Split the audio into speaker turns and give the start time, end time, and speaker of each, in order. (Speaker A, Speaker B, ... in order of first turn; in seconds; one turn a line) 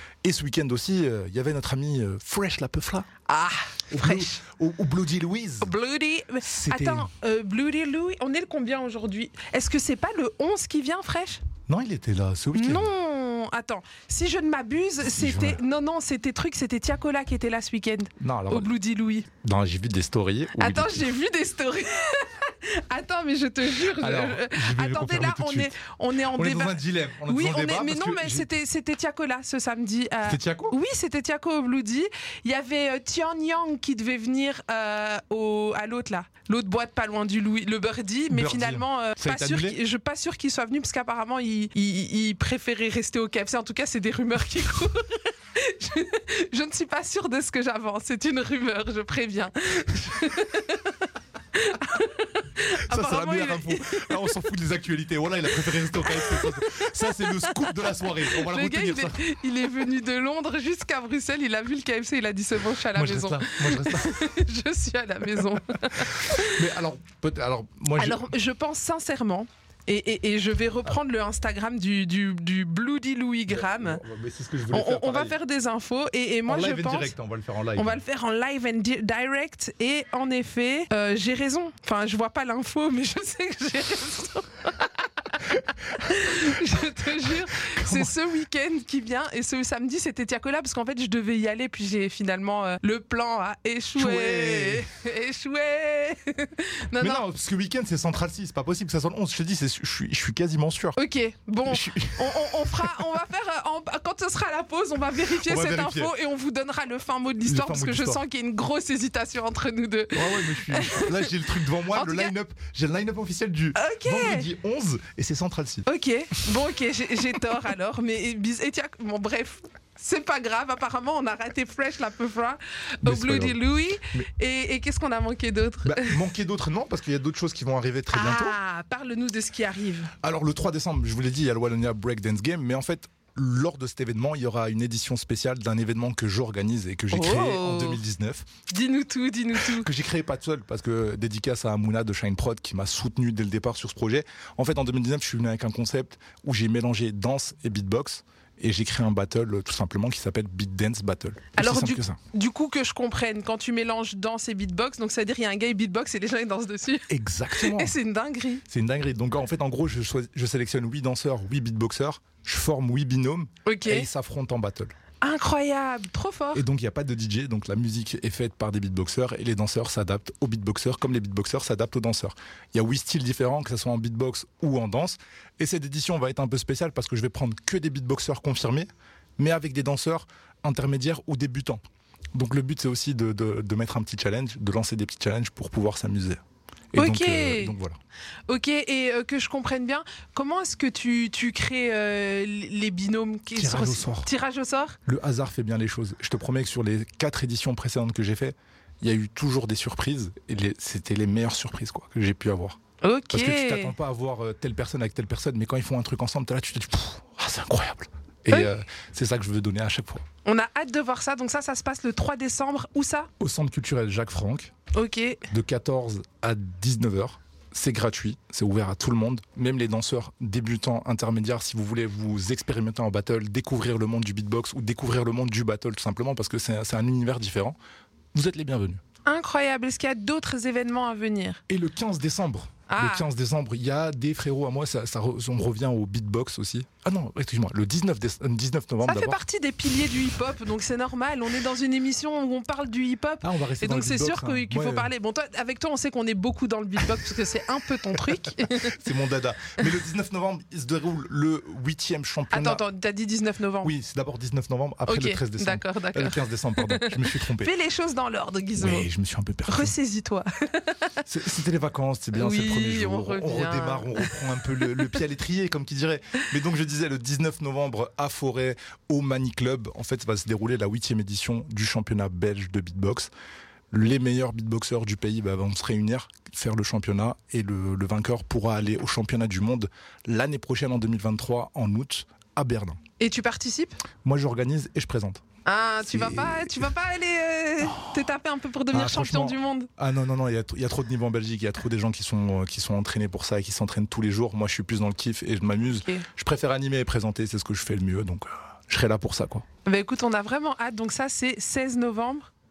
Speaker A: 0.2-3.1
Speaker B: 3.3-4.4
Speaker A: 3.9-5.7
Speaker B: 5.6-11.4
Speaker A: 6.4-7.1
Speaker A: 11.7-12.9
Speaker B: 12.6-19.3
Speaker A: 15.0-15.6
Speaker A: 18.2-18.7
Speaker A: 19.4-21.1
Speaker B: 20.6-54.3
Speaker A: 23.8-25.8
Speaker A: 26.3-28.5
Speaker A: 30.2-30.8
Speaker A: 38.3-39.8
Speaker A: 52.8-59.2
Speaker B: 55.8-66.6
Speaker A: 62.9-64.2
Speaker A: 66.2-68.3
Speaker B: 68.0-74.0
Speaker A: 73.5-75.4
Speaker B: 74.7-77.1
Speaker A: 76.5-78.0
Speaker B: 77.8-97.2
Speaker A: 87.5-88.2
Speaker A: 94.0-94.9
Speaker A: 97.0-101.0
Speaker B: 101.0-111.4
Speaker A: 101.7-103.1
Speaker A: 105.2-106.1
Speaker A: 107.4-108.2
Speaker A: 110.1-115.9
Speaker B: 111.9-112.3
Speaker B: 113.8-114.5
Speaker B: 115.8-126.2
Speaker A: 123.0-123.6
Speaker A: 125.8-128.6
Speaker B: 128.1-130.1
Speaker A: 130.2-138.4
Speaker B: 137.1-138.0
Speaker B: 138.7-139.9
Speaker A: 139.6-152.2
Speaker B: 151.6-158.7
Speaker A: 157.1-157.9
Speaker A: 158.7-164.9
Speaker B: 163.7-164.1
Speaker B: 165.2-166.7
Speaker A: 166.5-181.8
Speaker A: 182.3-186.4
Speaker A: 186.9-188.0
Speaker B: 187.0-187.8
Speaker B: 188.5-195.0
Speaker A: 193.6-194.3
Speaker A: 195.1-202.8
Speaker B: 203.0-203.9
Speaker A: 203.3-210.2
Speaker B: 210.4-213.3
Speaker A: 213.4-214.7
Speaker B: 214.9-215.5
Speaker A: 215.5-227.8
Speaker A: 228.3-229.0
Speaker B: 229.3-231.6
Speaker A: 231.7-239.4
Speaker B: 232.9-233.3
Speaker B: 239.0-249.0
Speaker A: 243.4-245.1
Speaker A: 248.8-252.8
Speaker B: 252.5-253.9
Speaker A: 253.8-257.7
Speaker B: 255.1-259.1
Speaker A: 258.8-259.9
Speaker B: 259.7-261.2
Speaker A: 261.3-273.3
Speaker B: 262.3-265.1
Speaker A: 273.9-283.0
Speaker B: 283.2-284.0
Speaker A: 284.2-285.4
Speaker B: 285.6-289.9
Speaker A: 286.0-286.9
Speaker A: 287.8-288.3
Speaker A: 288.9-299.6
Speaker B: 295.9-296.3
Speaker B: 299.9-302.5